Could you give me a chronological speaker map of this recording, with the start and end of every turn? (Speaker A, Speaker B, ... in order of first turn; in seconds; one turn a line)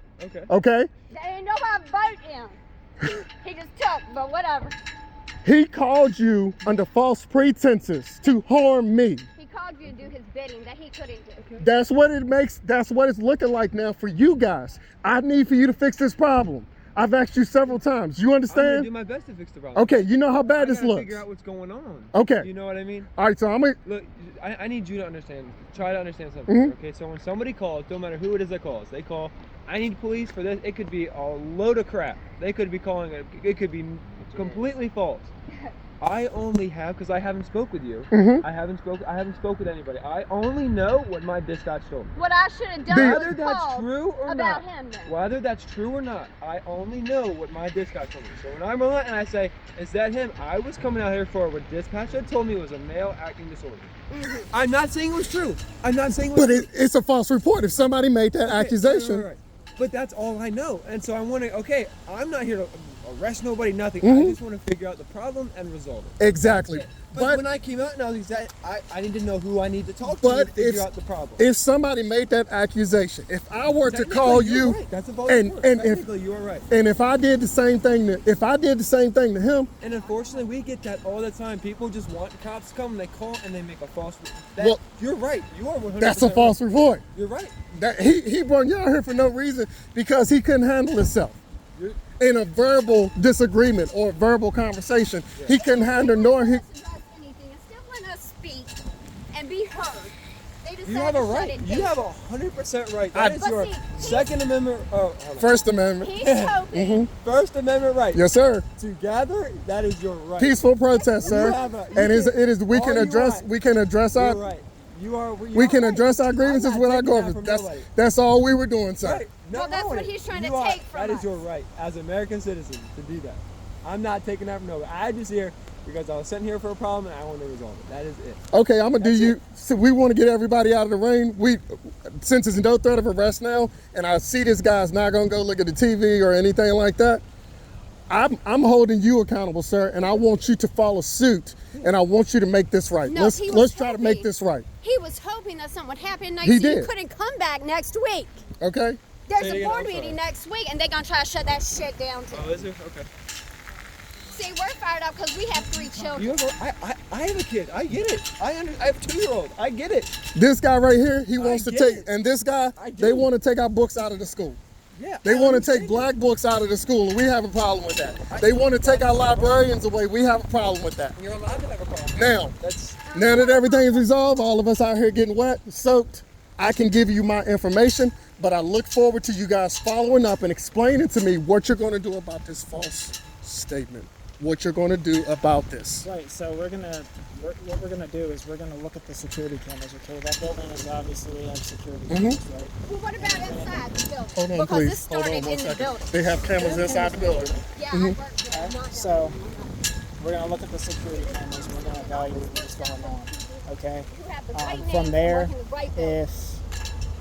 Speaker A: 0.2-0.5
Speaker B: 0.5-0.9
Speaker C: 1.1-2.6
Speaker C: 3.1-4.8
Speaker B: 5.4-9.3
Speaker C: 9.4-11.5
Speaker A: 11.4-11.7
Speaker B: 11.6-18.9
Speaker A: 18.5-23.1
Speaker B: 19.8-21.2
Speaker B: 22.1-22.5
Speaker B: 23.2-23.8
Speaker A: 23.9-35.3
Speaker B: 26.5-26.7
Speaker A: 36.0-42.1
Speaker B: 38.1-38.4
Speaker C: 42.2-45.1
Speaker A: 42.9-53.9
Speaker B: 42.9-43.4
Speaker C: 54.1-54.5
Speaker A: 54.5-56.7
Speaker B: 56.3-59.3
Speaker A: 58.4-71.5
Speaker B: 64.0-64.4
Speaker B: 66.2-67.4
Speaker B: 70.0-70.9
Speaker B: 71.4-76.0
Speaker A: 73.8-76.7
Speaker B: 76.7-79.7
Speaker A: 79.8-87.6
Speaker B: 86.0-87.0
Speaker B: 87.7-91.4
Speaker A: 91.8-92.1
Speaker B: 92.2-96.6
Speaker C: 95.5-98.8
Speaker C: 99.3-102.0
Speaker A: 100.8-105.7
Speaker C: 103.2-104.3
Speaker B: 105.4-106.2
Speaker C: 106.0-107.1
Speaker A: 106.2-106.6
Speaker B: 106.7-107.1
Speaker A: 107.2-108.3
Speaker B: 108.1-108.7
Speaker A: 108.8-110.6
Speaker B: 110.4-114.4
Speaker C: 110.9-112.1
Speaker A: 111.2-113.5
Speaker A: 114.1-117.9
Speaker B: 115.5-119.3
Speaker C: 115.8-116.2
Speaker A: 119.0-128.4
Speaker C: 119.5-121.4
Speaker B: 128.5-137.2
Speaker A: 129.0-129.4
Speaker B: 138.1-144.7
Speaker C: 143.1-144.3
Speaker C: 144.8-148.4
Speaker B: 146.4-146.9
Speaker B: 148.6-149.0
Speaker C: 149.3-152.7
Speaker A: 149.4-150.2
Speaker A: 152.3-153.1
Speaker C: 154.3-156.4
Speaker A: 156.2-160.1
Speaker B: 160.3-164.6
Speaker A: 161.4-162.1
Speaker A: 162.8-163.3
Speaker A: 165.0-166.1
Speaker B: 165.2-171.2
Speaker A: 168.3-169.7
Speaker A: 171.2-173.1
Speaker B: 172.2-172.5
Speaker C: 173.1-174.1
Speaker B: 173.1-186.1
Speaker D: 186.0-193.9
Speaker B: 192.1-192.4
Speaker C: 192.9-196.2
Speaker B: 194.4-198.2
Speaker D: 196.5-197.6
Speaker C: 197.7-199.8
Speaker D: 198.5-199.4
Speaker D: 200.2-206.6
Speaker C: 201.2-206.2